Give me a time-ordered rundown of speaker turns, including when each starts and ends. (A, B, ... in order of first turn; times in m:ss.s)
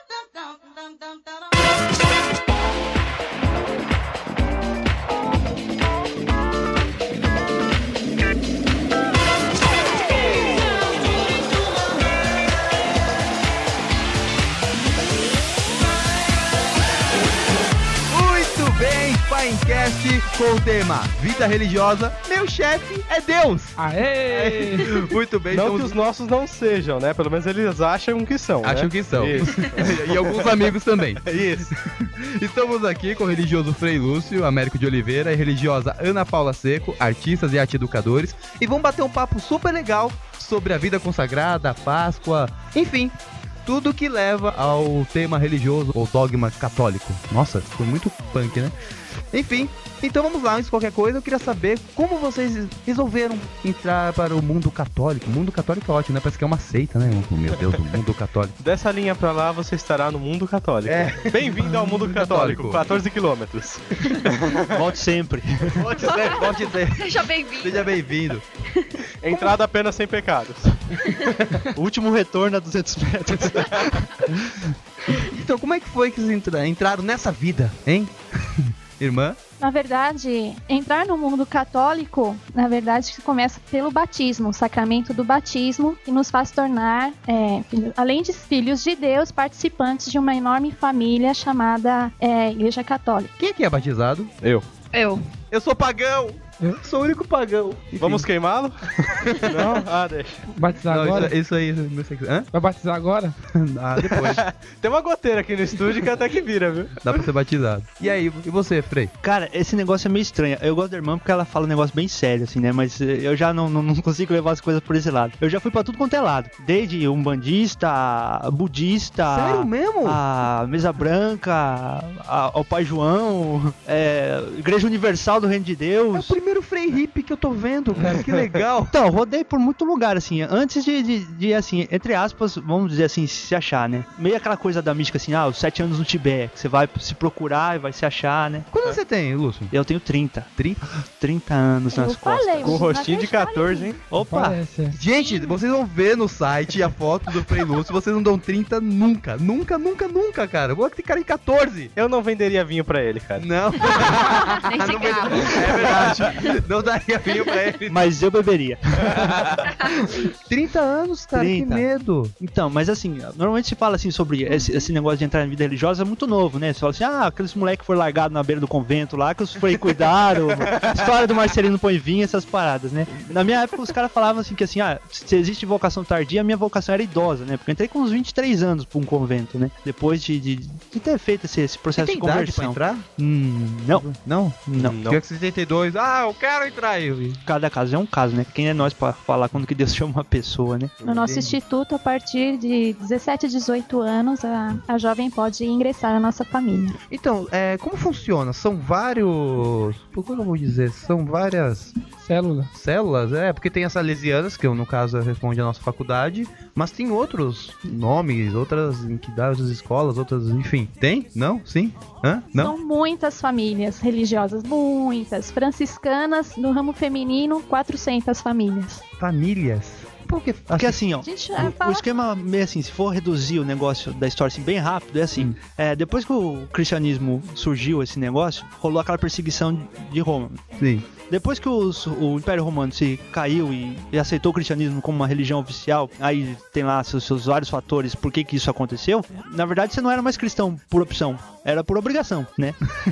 0:18.1-0:26.0 A
0:23.8-0:25.0 B
0:25.5-0:30.5 C
0:28.6-0:43.1 A
0:31.2-0:31.7 C
0:43.6-0:48.7 A
0:49.3-0:58.6 A
0:58.6-1:04.6 C
1:00.8-1:02.9 A
1:04.7-1:05.9 D
1:05.8-1:08.4 A
1:06.0-1:08.0 E
1:08.7-1:09.5 E
1:09.2-1:10.8 C
1:11.7-1:14.4 D
1:15.2-1:19.4 A
1:19.6-1:33.3 F
1:33.4-1:34.3 A
1:34.4-1:34.7 C
1:34.9-1:35.2 E
1:35.5-1:38.3 A
1:38.0-1:40.4 C
1:39.0-1:39.8 A
1:40.5-1:41.3 B
1:40.9-1:42.5 A
1:42.5-1:43.3 B
1:43.5-1:44.4 A
1:44.0-1:47.1 C
1:47.0-1:49.1 A
1:49.2-2:06.4 D
1:59.2-2:00.2 A
2:06.1-2:08.9 A
2:08.9-2:18.7 D
2:18.7-2:19.7 A
2:19.7-2:20.6 D
2:20.6-2:20.8 A
2:21.2-2:22.8 D
2:21.9-2:23.9 F
2:22.6-2:24.0 C
2:24.1-2:24.6 D
2:24.2-2:25.0 B
2:24.9-2:31.9 A
2:32.0-2:33.5 C
2:33.4-2:38.1 A
2:34.0-2:35.9 E
2:35.7-2:36.2 C
2:37.9-2:39.9 D
2:39.2-2:39.6 A
2:40.5-2:42.3 A
2:41.3-2:41.9 D
2:42.4-3:04.1 D
3:02.0-3:07.4 A
3:04.7-3:05.0 D
3:04.8-3:05.2 C
3:07.4-3:10.9 D
3:11.0-3:17.0 F
3:11.1-3:11.6 A
3:17.1-3:22.0 A
3:22.2-3:22.7 B
3:22.7-3:32.7 A
3:32.5-3:39.0 F
3:39.2-3:41.0 A
3:40.7-4:02.8 D
3:41.2-3:42.0 F
3:50.8-3:51.0 A